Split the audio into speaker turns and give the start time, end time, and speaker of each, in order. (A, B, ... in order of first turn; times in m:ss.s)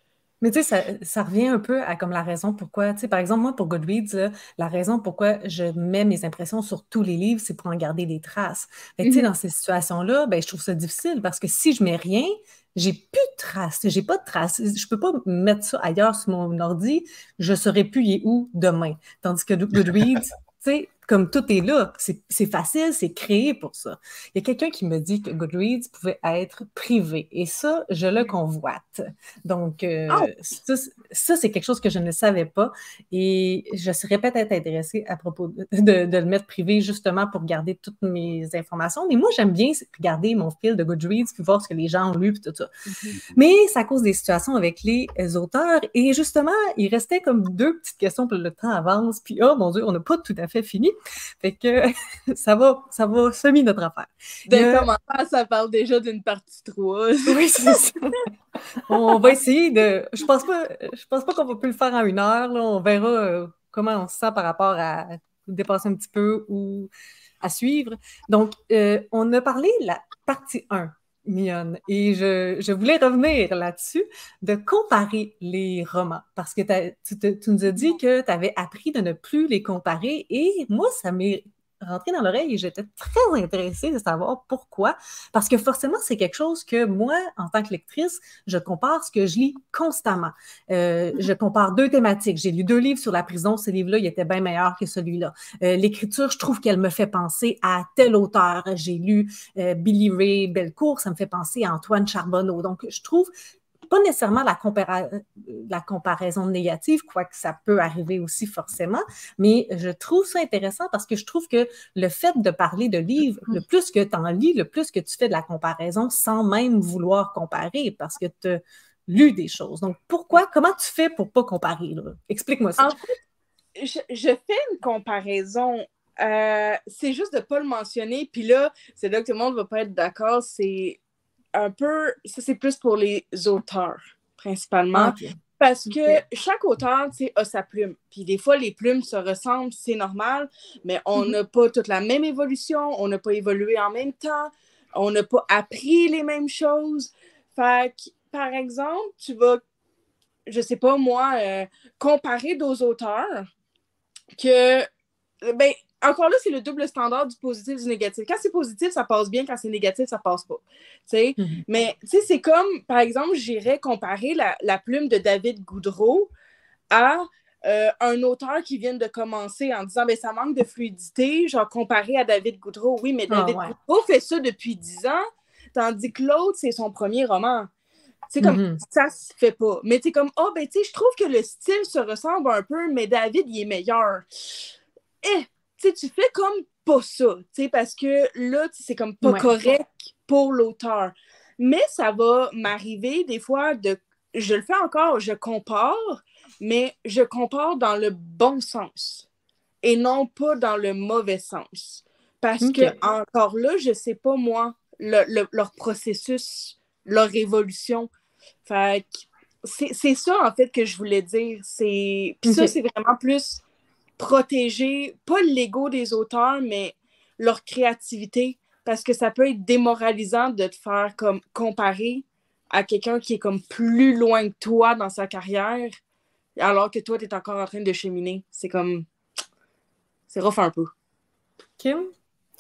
0:00.4-0:42.7 A
0:09.0-0:09.3 B
0:30.1-0:30.3 B
0:42.9-0:43.2 B
0:43.3-0:54.9 A
0:54.5-0:57.8 B
0:57.3-0:58.2 A
0:58.9-1:06.9 A
1:07.4-1:43.3 A
1:43.9-2:03.0 A
2:03.8-2:11.0 B
2:11.5-2:29.6 B
2:14.9-2:16.2 A
2:30.5-2:33.5 B
2:34.4-2:34.9 B
2:35.4-2:46.3 B
2:41.4-2:41.6 A
2:46.9-2:57.7 B
2:53.3-2:53.7 A
2:58.3-3:04.7 B
2:58.4-2:58.8 A
3:05.2-3:19.3 B
3:09.2-3:09.5 A
3:19.8-3:28.1 B
3:22.6-3:23.0 A
3:28.6-3:33.6 B
3:32.4-3:32.7 A
3:34.2-3:45.9 B
3:46.6-3:49.1 B
3:50.3-3:50.9 B
3:51.8-3:52.1 A